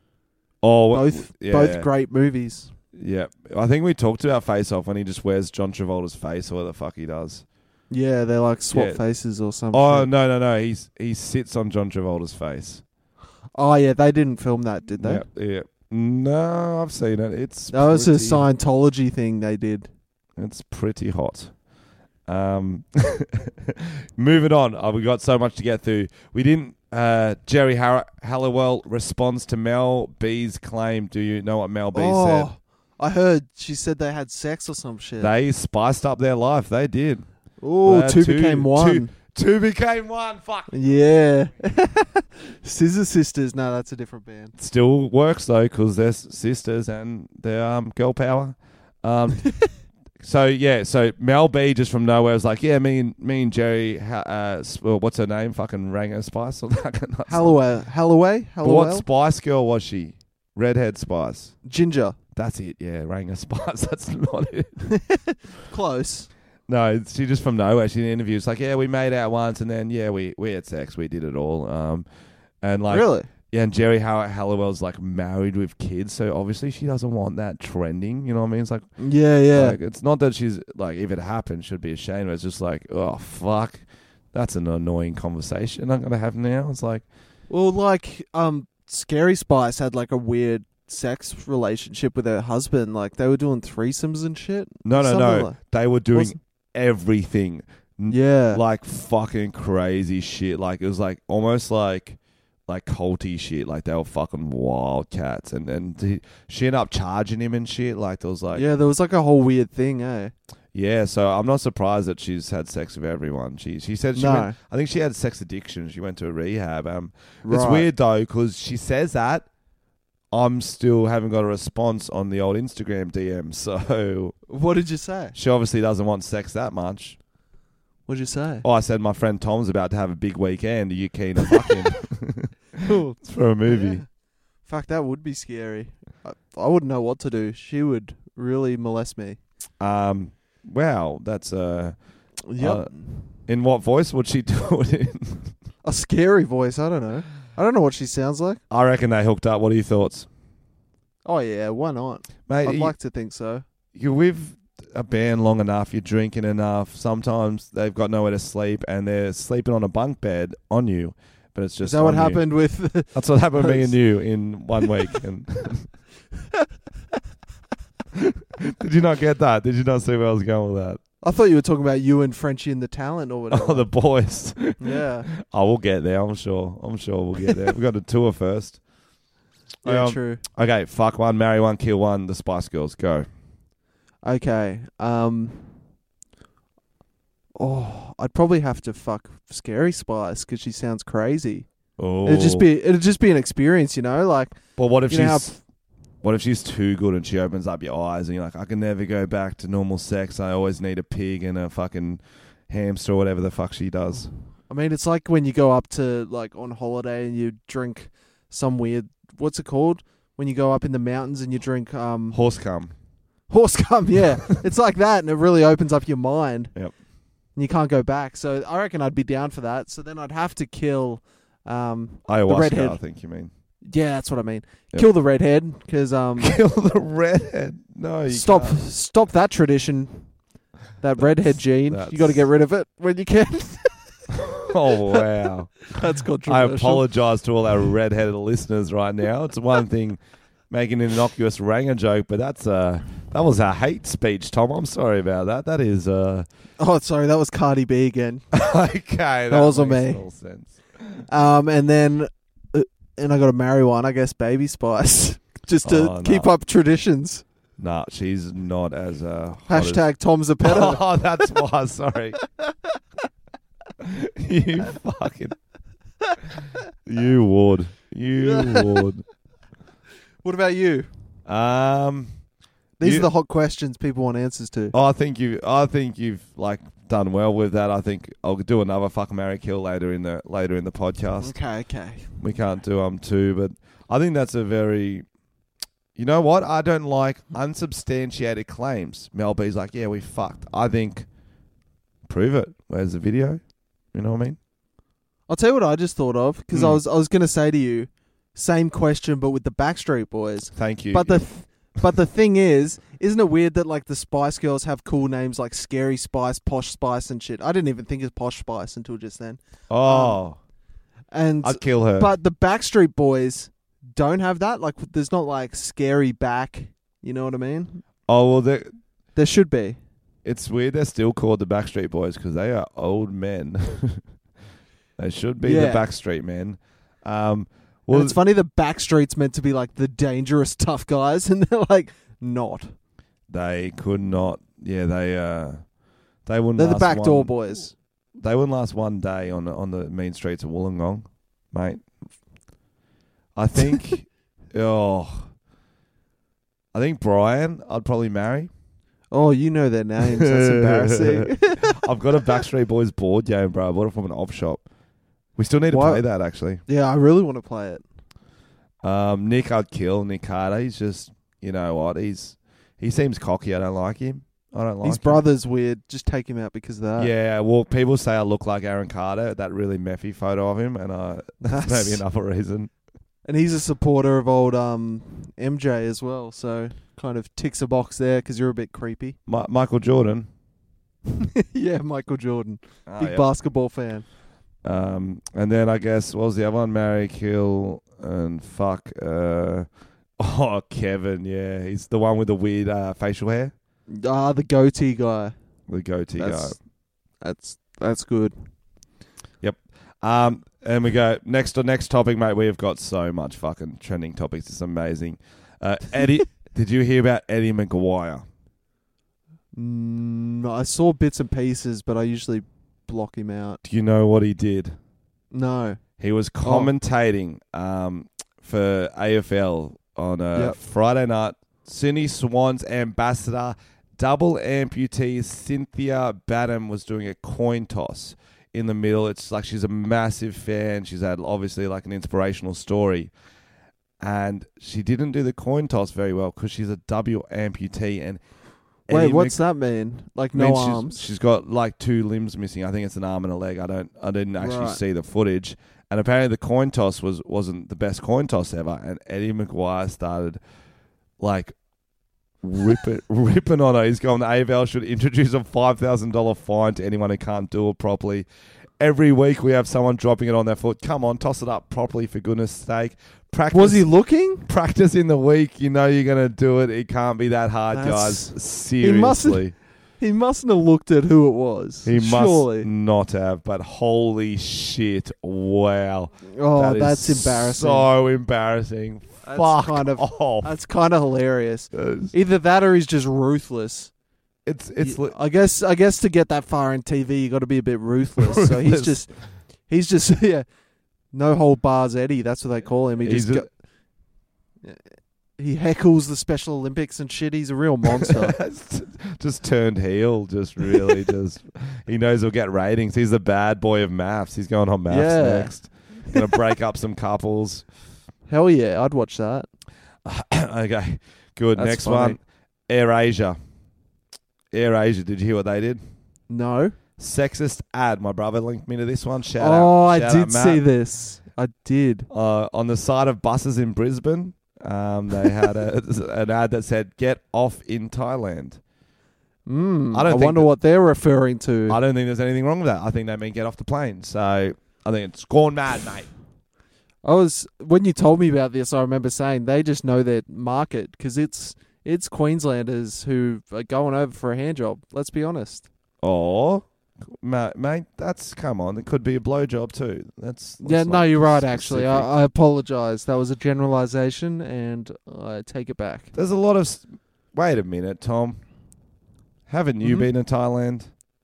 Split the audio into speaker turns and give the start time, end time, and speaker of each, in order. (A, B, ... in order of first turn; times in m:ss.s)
0:00.6-0:01.9 A
0:00.9-0:02.7 B
0:02.9-0:07.4 A
0:07.9-0:10.1 B
0:08.7-0:09.0 A
0:09.7-0:12.8 A
0:13.5-0:15.2 B
0:15.0-0:18.4 A
0:17.7-0:19.9 B
0:20.4-0:21.5 A
0:22.3-0:32.5 A
0:31.9-0:35.3 B
0:35.2-0:37.2 A
0:37.6-0:39.1 B
0:37.8-0:40.7 A
0:40.7-0:44.5 B
0:44.6-0:49.5 A
0:50.2-0:57.6 A
0:57.3-0:59.0 B
0:58.6-1:01.5 A
1:01.6-1:02.2 B
1:02.3-1:04.7 A
1:04.8-1:06.3 B
1:06.7-1:12.0 A
1:12.6-1:18.8 A
1:12.9-1:13.3 B
1:19.0-1:19.8 B
1:19.5-1:27.0 A
1:27.5-1:35.6 B
1:34.8-1:42.2 A
1:38.1-1:38.6 B
1:42.7-1:48.6 A
1:48.5-1:50.3 B
1:50.7-1:59.5 A
1:54.1-1:54.6 B
1:57.4-1:57.9 B
2:00.3-2:04.4 A
2:04.5-2:05.4 B
2:05.3-2:07.2 A
2:08.1-2:08.6 B
2:08.6-2:14.0 A
2:12.8-2:13.2 B
2:13.7-2:14.0 B
2:14.6-2:19.4 B
2:19.8-2:22.0 A
2:22.5-2:23.3 B
2:22.6-2:25.5 A
2:25.8-2:28.6 B
2:28.7-2:30.3 A
2:31.2-2:33.6 B
2:32.5-2:32.9 A
2:33.9-2:42.4 A
2:41.8-2:43.9 B
2:43.1-2:45.9 A
2:48.1-2:51.0 A
2:51.2-2:53.9 B
2:53.5-2:58.8 A
2:54.8-2:55.3 B
2:59.8-3:00.4 B
2:59.8-3:03.2 A
3:04.2-3:05.8 B
3:07.6-3:11.6 B
3:12.0-3:12.7 A
3:12.2-3:15.5 B
3:14.8-3:15.6 A
3:16.2-3:24.3 A
3:24.7-3:32.4 B
3:32.3-3:32.9 A
3:33.5-3:36.7 B
3:37.6-3:43.0 B
3:42.3-3:43.5 A
3:43.9-3:46.6 B
3:46.4-3:48.8 A
3:48.3-3:50.3 B
3:51.0-3:54.5 B
3:51.4-3:52.4 A
3:54.3-3:55.9 A
3:55.9-3:57.0 B
3:56.4-4:06.5 A
4:06.8-4:08.4 B
4:08.5-4:11.2 A
4:09.5-4:10.2 B
4:11.3-4:17.4 B
4:15.8-4:16.5 A
4:17.8-4:20.0 A
4:19.7-4:21.0 B
4:20.6-4:22.4 A
4:22.4-4:22.7 B
4:24.0-4:25.6 A
4:27.0-4:29.2 A
4:28.4-4:29.0 B
4:30.4-4:31.1 B
4:31.4-4:32.3 A
4:33.0-4:34.9 B
4:33.0-4:33.3 A
4:34.9-4:41.5 A
4:41.4-4:42.3 B
4:42.4-4:45.2 A
4:46.2-4:51.3 A
4:52.3-4:53.6 A
4:54.1-4:54.6 A
4:55.5-5:10.4 B
4:56.7-4:57.0 A
5:00.7-5:01.4 A
5:09.9-5:10.6 A
5:11.3-5:18.0 B
5:11.6-5:12.3 A
5:18.3-5:18.9 A
5:19.4-5:20.0 B
5:20.4-5:24.2 A
5:25.2-5:28.4 A
5:25.6-5:26.0 B
5:28.1-5:32.9 B
5:33.5-5:35.8 A
5:36.4-5:37.5 A
5:36.8-5:37.9 B
5:38.4-5:42.0 A
5:43.6-5:45.5 A
5:46.9-5:48.7 A
5:49.3-5:52.0 B
5:50.2-5:54.8 A
5:55.6-5:56.8 A
5:55.9-5:56.2 B
5:56.8-5:58.0 B
5:59.0-6:05.4 A
6:05.0-6:07.3 B
6:07.2-6:12.9 A
6:11.6-6:12.2 B
6:13.4-6:19.4 B
6:19.5-6:20.5 A
6:21.3-6:24.2 B
6:23.1-6:23.5 A
6:24.8-6:29.9 A
6:30.4-6:33.7 A
6:34.1-6:35.5 B
6:35.9-6:36.8 A
6:36.4-6:36.8 B
6:37.4-6:38.6 B
6:39.6-6:48.4 A
6:49.8-6:53.8 B
6:53.8-6:55.0 A
6:55.5-6:56.0 B
6:56.2-7:13.3 A
6:56.6-6:56.9 B
7:14.2-7:18.4 A
7:19.1-7:19.6 A
7:19.1-7:21.2 B
7:20.5-7:30.6 A
7:24.6-7:25.0 B
7:31.4-7:31.7 A
7:32.6-7:38.4 A
7:39.0-7:44.0 A
7:43.7-7:44.7 B
7:44.7-7:49.7 A
7:47.9-7:49.6 B
7:50.2-7:52.9 B
7:52.0-8:00.7 A
7:56.5-7:58.1 B
7:59.4-8:04.1 B
8:01.9-8:02.3 A
8:04.6-8:05.4 A
8:05.0-8:09.3 B
8:08.4-8:09.2 A
8:09.9-8:10.6 B
8:11.3-8:13.7 B
8:13.2-8:13.7 A
8:15.6-8:18.6 B
8:18.2-8:27.8 A
8:25.1-8:25.7 B
8:28.5-8:29.7 B
8:30.2-8:33.6 A
8:31.8-8:32.4 B
8:34.7-8:36.0 A
8:36.5-8:37.0 B
8:37.2-8:40.8 A
8:39.6-8:42.3 B
8:42.3-8:48.8 A
8:49.6-8:52.0 B
8:50.1-8:50.7 A
8:51.9-8:56.3 A
8:57.2-9:05.9 B
9:06.2-9:12.3 A
9:10.8-9:16.3 B
9:16.3-9:18.6 A
9:19.7-9:21.1 A
9:20.0-9:20.3 B